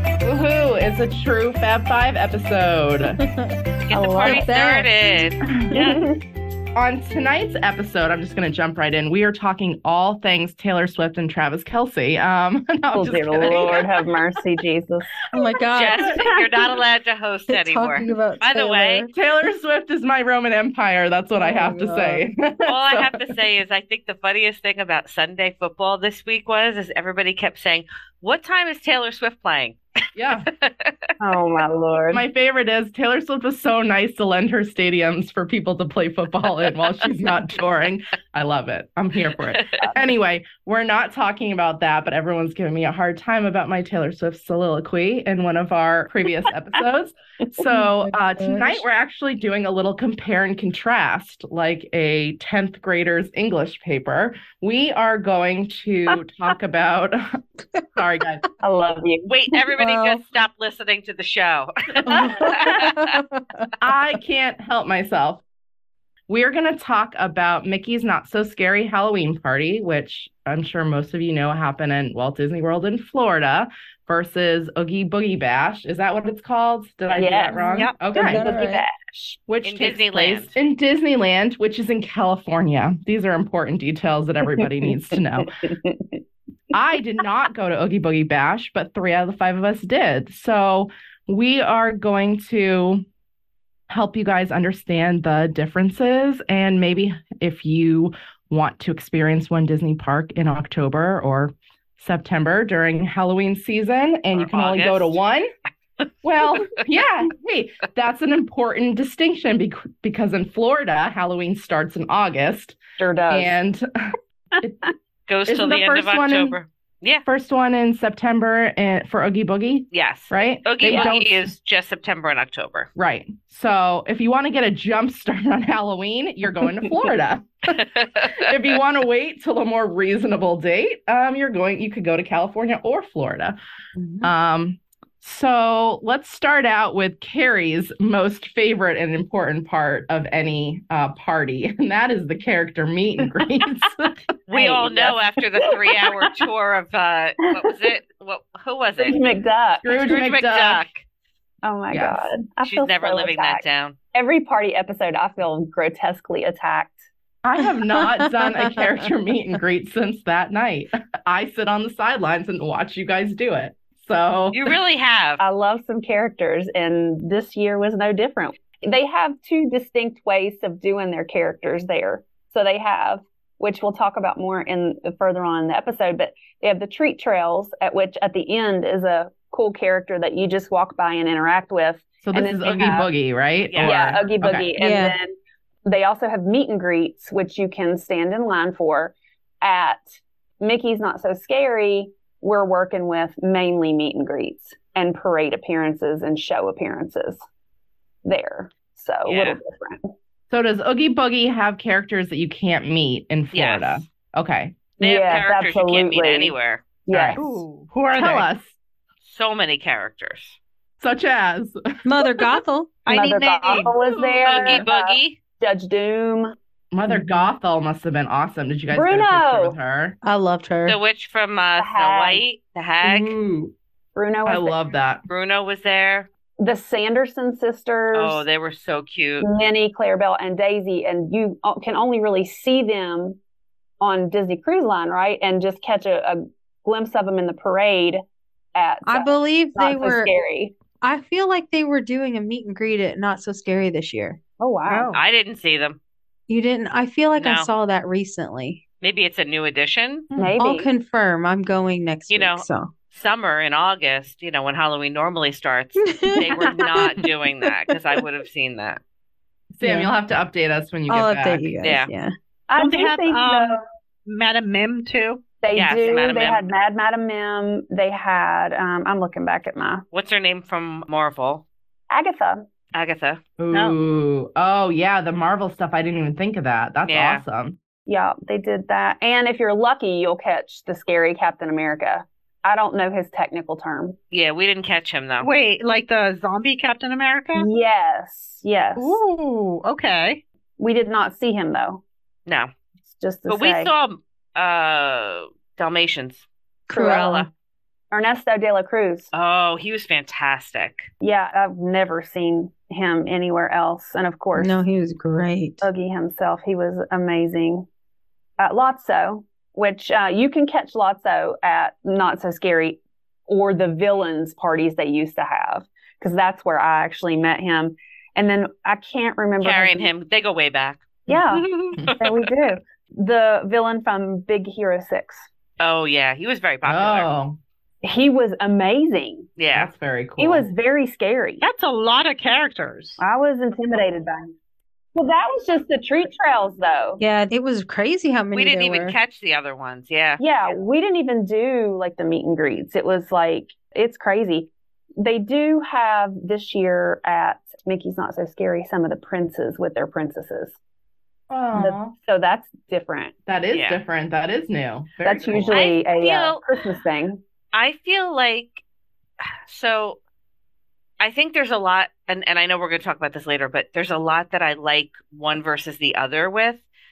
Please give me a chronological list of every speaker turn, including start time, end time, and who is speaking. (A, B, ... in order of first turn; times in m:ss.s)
0:00.2-0:03.2 A
0:03.0-0:05.9 B
0:03.9-0:06.0 C
0:05.7-0:06.2 D
0:06.8-0:13.9 A
0:12.9-0:15.1 D
0:15.3-0:16.2 B
0:15.7-0:19.1 C
0:16.0-0:16.5 D
0:17.5-0:19.1 B
0:19.1-0:23.2 A
0:21.4-0:22.2 B
0:22.7-0:29.8 C
0:30.2-0:30.5 A
0:30.5-0:31.0 C
0:31.2-0:32.2 D
0:32.1-0:57.4 A
0:39.4-0:39.9 C
0:47.6-0:48.9 B
0:58.0-0:58.4 A
0:58.6-0:59.3 D
0:59.3-1:03.0 C
0:59.8-1:00.2 B
1:02.1-1:03.7 B
1:02.6-1:02.9 A
1:03.8-1:05.4 A
1:06.3-1:18.5 A
1:17.1-1:19.4 D
1:18.1-1:18.8 B
1:19.5-1:25.5 A
1:19.6-1:20.6 C
1:24.4-1:26.2 D
1:26.7-1:33.0 A
1:33.9-1:45.5 A
1:44.3-1:45.2 C
1:46.2-1:52.8 A
1:46.5-1:46.8 C
1:53.0-1:53.6 D
1:53.3-1:54.8 A
1:55.3-1:57.2 C
1:55.5-1:56.6 A
1:57.3-2:01.5 A
1:59.9-2:02.9 C
2:00.8-2:01.1 D
2:03.0-2:13.6 A
2:07.8-2:08.5 C
2:14.0-2:14.3 B
2:14.2-2:24.1 A
2:24.5-2:29.2 C
2:24.5-2:26.3 D
2:29.0-2:30.1 D
2:29.8-2:30.8 A
2:29.9-2:31.0 C
2:31.6-2:37.0 D
2:31.9-2:32.3 A
2:32.6-2:34.0 C
2:37.4-2:44.8 A
2:37.9-2:38.8 B
2:44.5-2:45.4 C
2:45.4-3:03.1 D
3:02.2-3:04.7 A
3:03.7-3:04.2 C
3:03.8-3:05.3 D
3:04.8-3:05.2 B
3:05.8-3:17.4 D
3:18.2-3:20.1 D
3:19.3-3:19.6 C
3:20.5-3:24.8 A
3:23.5-3:24.0 C
3:25.0-3:26.6 D
3:25.0-3:26.9 C
3:27.1-3:27.5 D
3:27.1-3:27.6 A
3:27.4-3:28.5 E
3:28.1-3:28.8 A
3:29.2-3:30.6 C
3:31.0-3:32.5 A
3:32.0-3:32.9 B
3:33.1-3:34.0 E
3:33.1-3:36.5 D
3:34.0-3:34.9 A
3:34.4-3:35.4 C
3:36.9-3:40.2 A
3:37.1-3:37.5 B
3:38.9-3:39.8 D
3:40.2-3:41.0 B
3:40.8-3:43.4 C
3:41.8-3:42.4 D
3:43.0-3:43.7 A
3:44.2-3:44.8 D
3:44.5-3:45.2 A
3:45.3-3:46.3 C
3:46.6-3:48.4 D
3:48.1-3:49.5 C
3:49.4-3:53.4 D
3:54.0-3:58.2 D
3:58.8-4:00.8 D
3:59.1-4:00.3 B
4:01.0-4:04.4 B
4:04.6-4:05.1 D
4:04.9-4:05.2 E
4:05.1-4:06.0 C
4:06.5-4:08.8 B
4:07.4-4:07.7 C
4:09.0-4:10.3 C
4:10.4-4:10.9 D
4:10.6-4:12.9 B
4:12.3-4:19.0 C
4:16.0-4:16.7 B
4:16.7-4:17.1 D
4:19.7-4:21.7 A
4:19.8-4:20.1 B
4:21.1-4:22.3 B
4:21.8-4:22.1 C
4:22.7-4:23.8 D
4:22.8-4:25.4 E
4:25.6-4:30.0 D
4:25.7-4:26.6 C
4:30.1-4:31.6 C
4:32.1-4:32.6 D
4:32.9-4:33.4 C
4:33.6-4:37.8 A
4:33.7-4:34.0 E
4:37.0-4:37.4 C
4:38.1-4:44.2 D
4:44.3-4:45.5 C
4:45.4-4:47.7 E
4:47.6-4:49.2 D
4:49.0-4:50.4 E
4:50.8-4:52.0 D
4:53.1-4:53.9 D
4:53.5-4:56.5 C
4:56.9-4:57.5 B
4:56.9-4:57.5 D
4:57.2-4:57.4 C
4:58.1-4:59.3 D
4:59.3-5:01.1 C
5:01.2-5:04.8 D
5:04.6-5:05.9 B
5:05.8-5:07.9 D
5:08.6-5:20.1 D
5:19.6-5:21.2 C
5:21.3-5:21.7 D
5:21.3-5:22.1 E
5:22.2-5:25.5 D
5:25.8-5:27.3 C
5:26.8-5:27.6 A
5:28.0-5:29.6 D
5:29.6-5:29.9 C
5:29.7-5:30.7 A
5:30.4-5:31.7 D
5:31.6-5:33.2 E
5:33.2-5:34.5 D
5:35.2-5:37.2 D
5:37.2-5:39.2 B
5:38.5-5:40.4 C
5:40.4-5:50.8 D
5:51.5-5:52.2 A
5:51.7-5:53.3 D
5:53.5-5:55.8 A
5:53.7-5:54.0 C
5:55.2-5:57.4 D
5:55.6-5:56.6 C
5:57.7-5:58.8 C
5:59.7-6:00.2 C
6:01.2-6:06.8 C